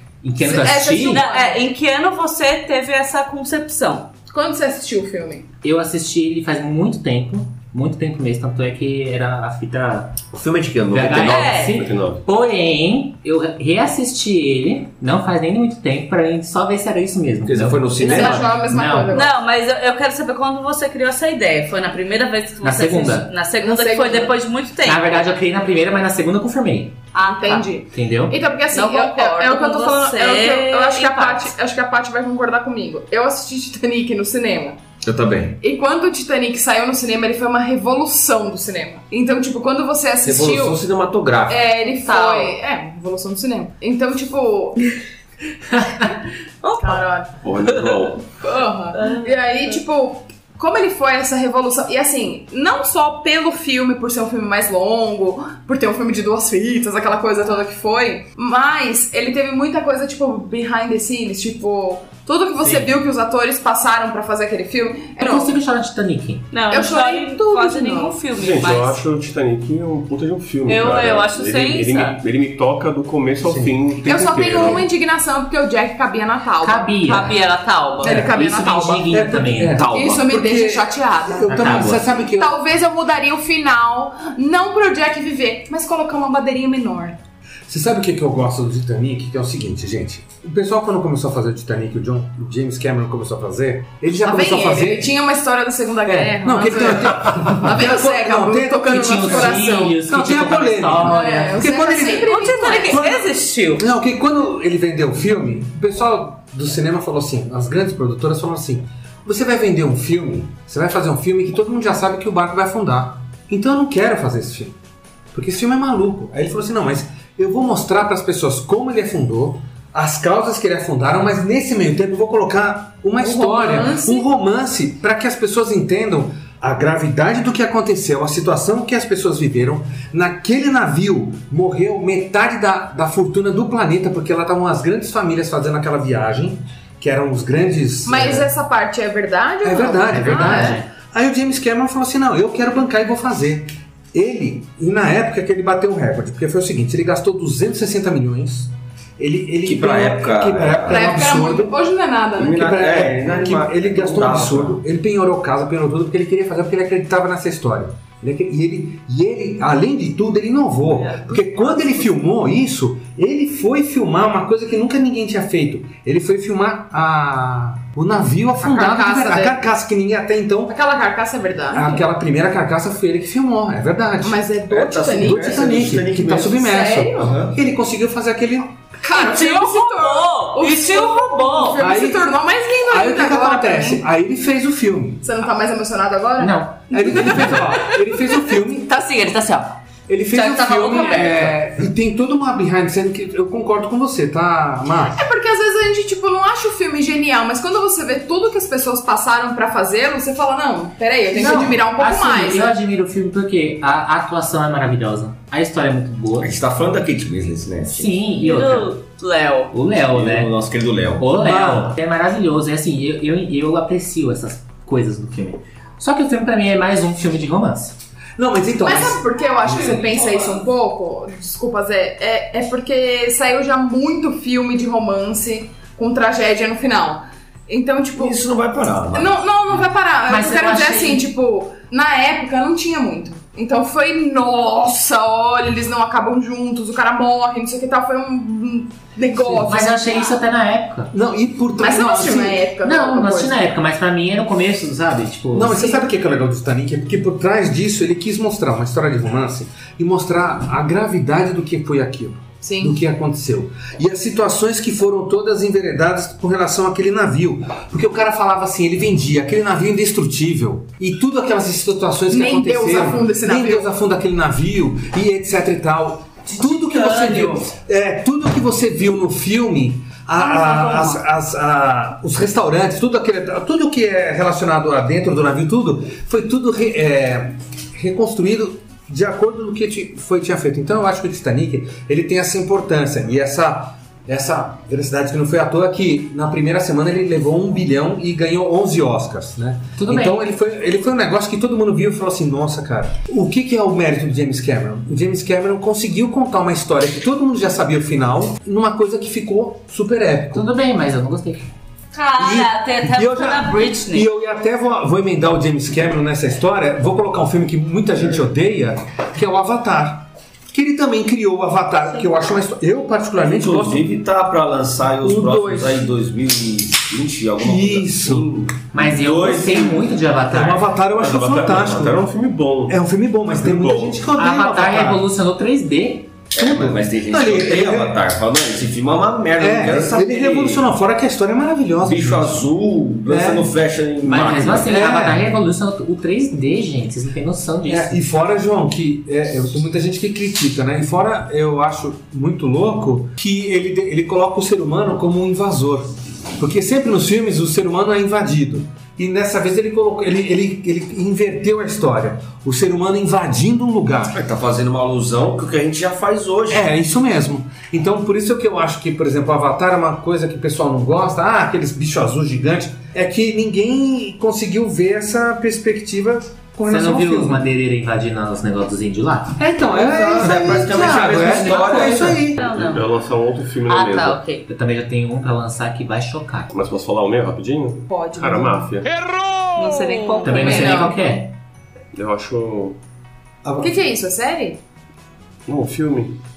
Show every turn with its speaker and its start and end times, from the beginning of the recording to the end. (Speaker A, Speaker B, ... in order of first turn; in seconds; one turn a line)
Speaker A: 0.2-1.2
Speaker B: 0.4-1.6
Speaker C: 1.0-4.1
Speaker B: 4.3-5.5
Speaker A: 5.6-10.2
Speaker D: 10.3-11.6
Speaker A: 10.9-19.1
Speaker C: 11.2-11.8
Speaker E: 11.6-12.2
Speaker D: 17.4-18.6
Speaker B: 18.0-19.3
Speaker C: 19.1-25.2
Speaker A: 22.6-23.3
Speaker B: 23.6-24.3
Speaker A: 24.9-27.0
Speaker C: 27.1-27.7
Speaker B: 27.2-34.8
Speaker A: 27.9-28.4
Speaker C: 28.7-31.5
Speaker D: 35.0-35.6
Speaker B: 35.6-40.8
Speaker D: 40.2-41.6
Speaker B: 41.5-44.9
Speaker C: 41.8-42.5
Speaker C: 46.6-47.0
Speaker B: 46.8-47.4
Speaker E: 47.4-48.2
Speaker C: 47.6-48.0
Speaker B: 48.4-65.6
Speaker C: 48.9-49.8
Speaker A: 62.6-62.9
Speaker A: 65.2-66.5
Speaker C: 66.5-69.0
Speaker B: 66.7-68.2
Speaker E: 68.3-74.9
Speaker C: 70.7-72.2
Speaker F: 73.4-74.8
Speaker B: 74.1-77.3
Speaker A: 76.6-77.4
Speaker C: 77.1-78.3
Speaker B: 78.0-79.1
Speaker A: 78.1-79.8
Speaker F: 79.1-82.6
Speaker D: 79.8-80.3
Speaker B: 79.9-87.2
Speaker A: 81.5-82.1
Speaker F: 87.7-95.1
Speaker B: 94.2-100.0
Speaker F: 96.1-102.3
Speaker A: 98.9-101.6
Speaker B: 101.0-103.2
Speaker C: 102.2-103.8
Speaker F: 103.8-114.8
Speaker F: 115.3-138.5
Speaker B: 123.2-124.2
Speaker B: 138.1-140.8
Speaker F: 139.6-151.8
Speaker A: 140.1-140.9
Speaker D: 149.7-151.2
Speaker B: 150.9-152.6
Speaker D: 152.4-154.8
Speaker F: 152.4-170.8
Speaker C: 160.9-162.0
Speaker B: 168.6-169.6
Speaker B: 170.7-172.0
Speaker F: 171.7-178.7
Speaker B: 174.2-175.7
Speaker D: 174.7-177.6
Speaker B: 176.6-177.3
Speaker B: 179.0-184.0
Speaker C: 179.1-181.8
Speaker F: 181.8-182.3
Speaker F: 182.9-185.2
Speaker B: 185.2-187.6
Speaker A: 186.4-187.5
Speaker F: 186.9-189.0
Speaker C: 188.9-189.8
Speaker F: 190.1-195.2
Speaker C: 190.3-191.6
Speaker B: 195.2-202.8
Speaker A: 201.3-206.5
Speaker D: 206.4-208.1
Speaker A: 207.9-208.9
Speaker C: 208.4-209.7
Speaker A: 209.7-210.5
Speaker D: 210.0-211.3
Speaker A: 211.2-217.9
Speaker F: 211.4-211.9
Speaker F: 218.4-220.2
Speaker B: 218.8-228.4
Speaker D: 228.2-229.4
Speaker B: 229.1-240.3
Speaker A: 230.3-231.2
Speaker A: 239.4-241.1
Speaker F: 241.1-242.6
Speaker B: 241.8-243.5
Speaker A: 242.8-245.8
Speaker F: 245.5-300.6
Speaker B: 245.7-246.0
Speaker B: 252.6-253.0
Speaker B: 262.3-263.9
Speaker A: 290.0-290.5
Speaker A: 300.5-301.7
Speaker C: 302.1-304.3
Speaker F: 302.4-314.1
Speaker D: 313.4-320.3
Speaker F: 315.2-316.1
Speaker F: 317.6-318.5
Speaker A: 318.9-320.9
Speaker F: 320.5-322.2
Speaker E: 321.1-323.0
Speaker F: 322.9-325.2
Speaker E: 323.5-324.2
Speaker A: 324.4-326.5
Speaker D: 326.5-330.9
Speaker F: 326.6-328.2
Speaker F: 329.6-332.7
Speaker D: 332.0-335.2
Speaker F: 333.3-333.7
Speaker A: 334.2-338.2
Speaker F: 334.8-335.4
Speaker F: 337.9-354.4
Speaker D: 354.3-356.9
Speaker F: 356.7-367.6
Speaker A: 366.9-369.6
Speaker F: 369.6-372.6
Speaker D: 369.9-372.5
Speaker C: 371.9-373.1
Speaker E: 372.6-374.4
Speaker C: 373.9-374.7
Speaker A: 374.7-376.7
Speaker E: 376.7-379.1
Speaker B: 378.1-378.9
Speaker C: 379.8-381.2
Speaker A: 380.4-381.5
Speaker B: 380.5-381.3
Speaker E: 382.1-383.0
Speaker F: 383.6-384.0
Speaker B: 383.8-384.8
Speaker E: 385.7-386.4